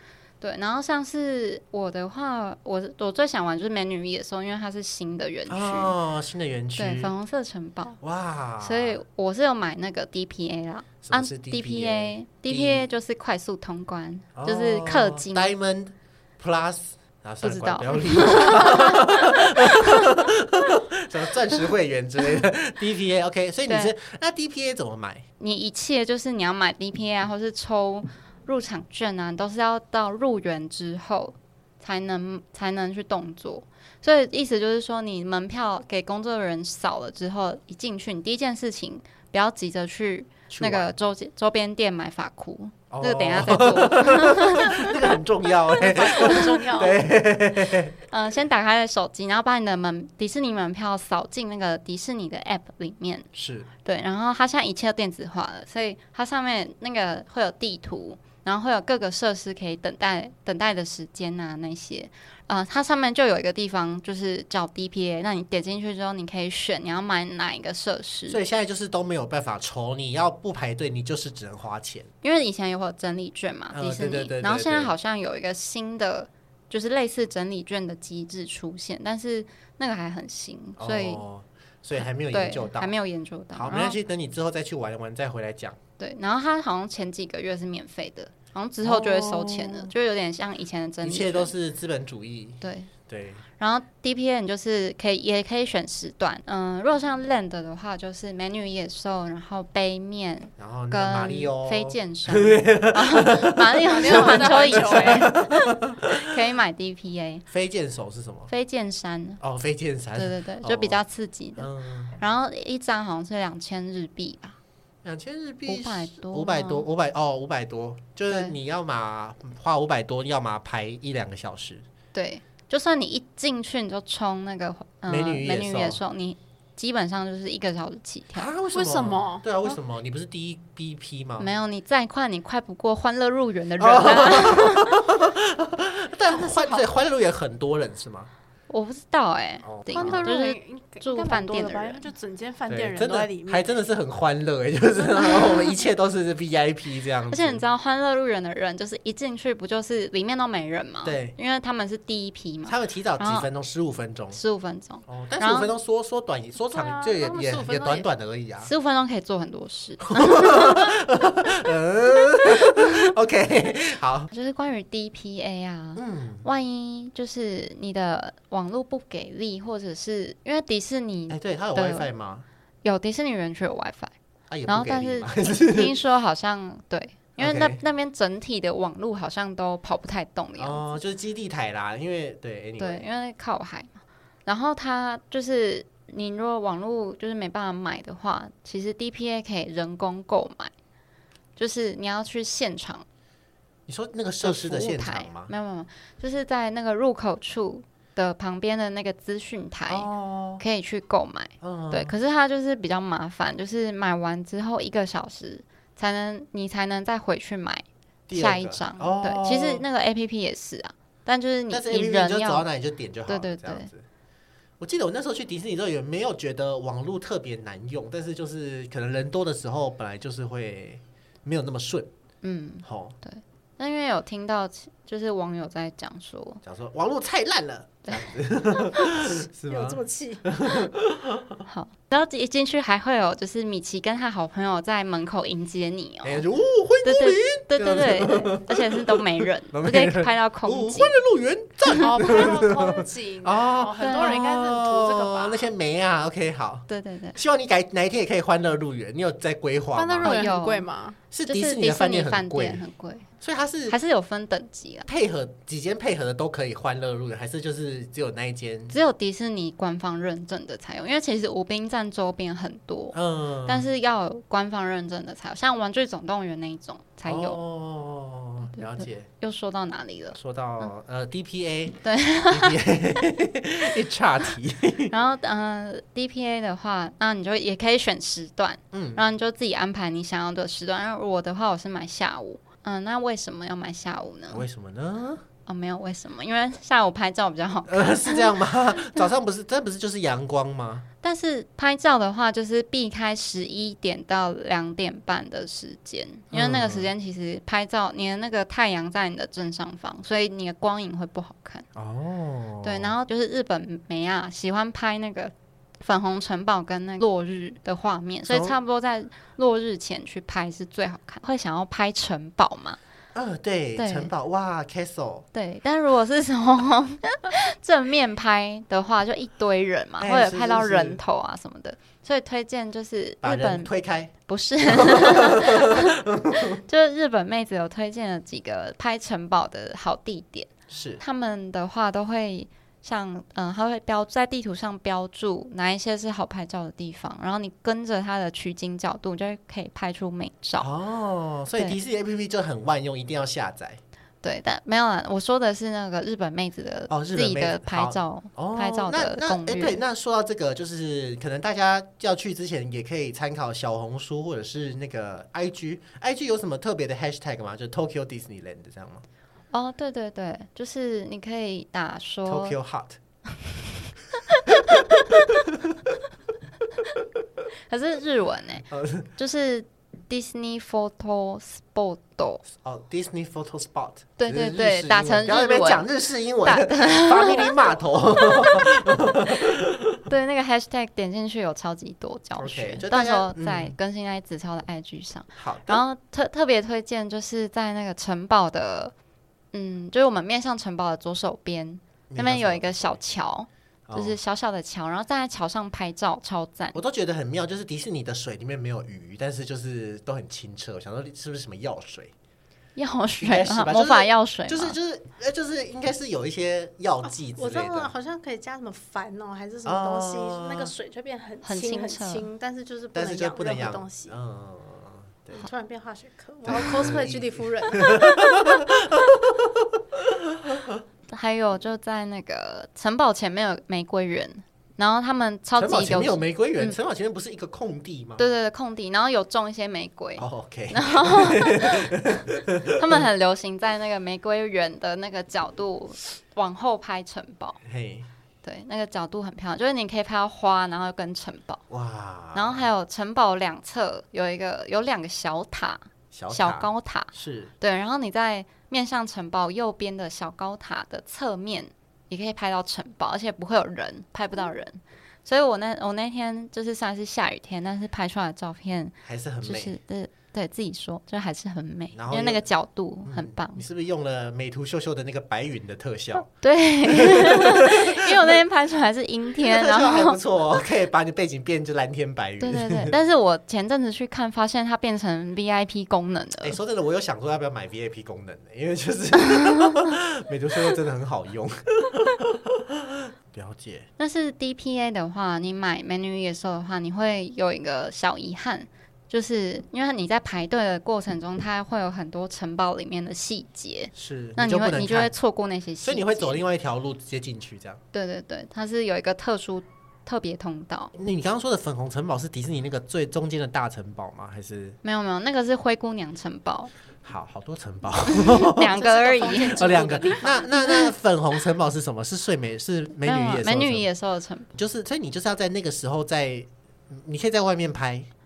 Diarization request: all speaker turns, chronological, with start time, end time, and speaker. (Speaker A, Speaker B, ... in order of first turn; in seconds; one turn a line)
Speaker A: 0.4-5.9
Speaker B: 5.5-7.1
Speaker A: 6.8-8.0
Speaker B: 8.0-9.0
Speaker A: 8.6-15.5
Speaker B: 11.0-12.9
Speaker B: 14.3-25.2
Speaker A: 17.4-20.0
Speaker A: 23.7-23.9
Speaker A: 25.4-45.1
Speaker B: 40.5-40.9
Speaker B: 42.9-47.9
Speaker C: 45.7-47.0
Speaker A: 46.1-46.6
Speaker A: 48.1-53.3
Speaker B: 53.3-53.7
Speaker A: 53.8-68.4
Speaker B: 68.3-72.1
Speaker A: 72.2-81.2
Speaker B: 73.7-74.9
Speaker B: 80.8-82.9
Speaker A: 82.0-84.0
Speaker B: 83.5-85.8
Speaker A: 86.0-91.5
Speaker B: 88.8-89.9
Speaker B: 91.0-93.4
Speaker A: 92.6-92.9
Speaker A: 93.6-107.5
Speaker B: 100.6-106.3
Speaker C: 103.9-105.4
Speaker B: 107.5-108.5
Speaker A: 108.5-109.4
Speaker B: 109.4-111.0
Speaker A: 110.2-114.6
Speaker B: 111.6-112.2
Speaker B: 115.0-121.8
Speaker A: 115.7-116.8
Speaker A: 118.3-118.5
Speaker A: 122.1-128.5
Speaker B: 125.1-126.0
Speaker B: 128.3-131.5
Speaker C: 128.7-129.5
Speaker A: 131.4-135.0
Speaker B: 133.8-138.3
Speaker C: 136.5-136.8
Speaker A: 138.7-142.1
Speaker B: 139.6-140.3
Speaker C: 139.9-143.8
Speaker B: 142.7-147.6
Speaker A: 145.3-145.6
Speaker A: 147.3-153.5
Speaker B: 151.0-151.3
Speaker B: 152.7-154.4
Speaker A: 154.3-155.7
Speaker B: 155.1-158.7
Speaker C: 156.7-158.1
Speaker A: 158.6-160.8
Speaker B: 160.1-164.3
Speaker A: 164.3-172.1
Speaker B: 165.9-166.4
Speaker B: 171.3-172.4
Speaker A: 172.8-174.1
Speaker B: 174.5-175.9
Speaker A: 174.7-180.8
Speaker B: 177.4-177.8
Speaker B: 180.6-183.1
Speaker A: 182.8-190.7
Speaker A: 191.6-193.0
Speaker B: 193.9-195.5
Speaker A: 194.4-200.1
Speaker B: 199.9-200.6
Speaker A: 200.6-212.7
Speaker B: 201.6-202.1
Speaker B: 208.3-209.8
Speaker B: 211.7-214.0
Speaker A: 213.3-213.9
Speaker B: 214.8-222.1
Speaker A: 222.4-226.6
Speaker B: 222.8-223.2
Speaker B: 226.6-231.6
Speaker C: 229.0-230.7
Speaker A: 231.7-236.4
Speaker B: 236.2-250.5
Speaker A: 237.0-241.2
Speaker C: 242.0-245.7
Speaker A: 244.0-244.4
Speaker A: 246.9-247.4
Speaker C: 249.9-251.2
Speaker A: 250.2-250.9
Speaker B: 251.3-252.8
Speaker A: 251.5-253.2
Speaker B: 253.4-254.0
Speaker A: 253.9-255.1
Speaker B: 255.1-258.9
Speaker A: 258.9-267.6
Speaker B: 263.1-263.9
Speaker B: 267.2-269.3
Speaker A: 268.7-270.9
Speaker B: 270.3-275.1
Speaker A: 272.0-272.8
Speaker A: 275.1-284.6
Speaker B: 278.9-279.2
Speaker B: 284.5-285.4
Speaker A: 285.6-288.6
Speaker B: 287.9-291.1
Speaker A: 291.2-301.9
Speaker B: 296.5-297.1
Speaker B: 301.9-303.1
Speaker A: 302.8-313.0
Speaker B: 308.5-308.8
Speaker B: 313.3-315.5
Speaker A: 314.0-314.3
Speaker A: 315.5-340.9
Speaker B: 320.2-321.2
Speaker B: 323.4-324.3
Speaker B: 324.8-326.8
Speaker B: 330.9-331.2
Speaker B: 340.8-344.0
Speaker A: 344.4-350.0
Speaker B: 347.1-359.2
Speaker A: 359.7-362.8
Speaker B: 362.4-363.2
Speaker A: 364.4-365.6
Speaker B: 364.7-366.1
Speaker A: 367.9-372.6
Speaker B: 368.9-369.3
Speaker B: 372.7-380.2
Speaker A: 374.4-376.1
Speaker A: 376.6-377.8
Speaker A: 378.4-378.9
Speaker A: 380.3-389.1
Speaker B: 382.6-383.9
Speaker B: 385.6-386.0
Speaker A: 389.7-397.0
Speaker B: 392.3-393.2
Speaker B: 394.1-394.4
Speaker B: 396.9-402.3
Speaker A: 402.9-405.0
Speaker B: 403.4-408.1
Speaker C: 407.3-414.3
Speaker B: 409.8-410.9
Speaker A: 411.6-412.5
Speaker B: 413.1-415.7
Speaker C: 415.5-418.8
Speaker B: 416.6-421.0
Speaker A: 421.3-426.9
Speaker B: 425.8-428.4
Speaker A: 428.4-437.8
Speaker B: 430.4-433.2
Speaker B: 437.8-438.3
Speaker A: 438.6-441.8
Speaker B: 441.9-442.9
Speaker A: 442.5-463.8
Speaker B: 446.3-447.7
Speaker B: 459.2-459.9
Speaker B: 462.1-462.6
Speaker B: 463.2-466.5
Speaker A: 466.6-470.4
Speaker B: 467.0-468.6
Speaker B: 469.6-473.1
Speaker A: 472.6-476.8
Speaker B: 476.6-484.1
Speaker A: 479.6-480.0
Speaker A: 484.2-496.6
Speaker B: 494.1-495.3
Speaker B: 496.0-498.0
Speaker A: 498.1-501.1
Speaker B: 501.1-505.0
Speaker A: 505.0-506.9
Speaker B: 507.2-509.0
Speaker A: 508.3-511.1
Speaker C: 508.9-510.7
Speaker B: 509.6-514.0
Speaker A: 513.2-514.7
Speaker B: 514.7-518.3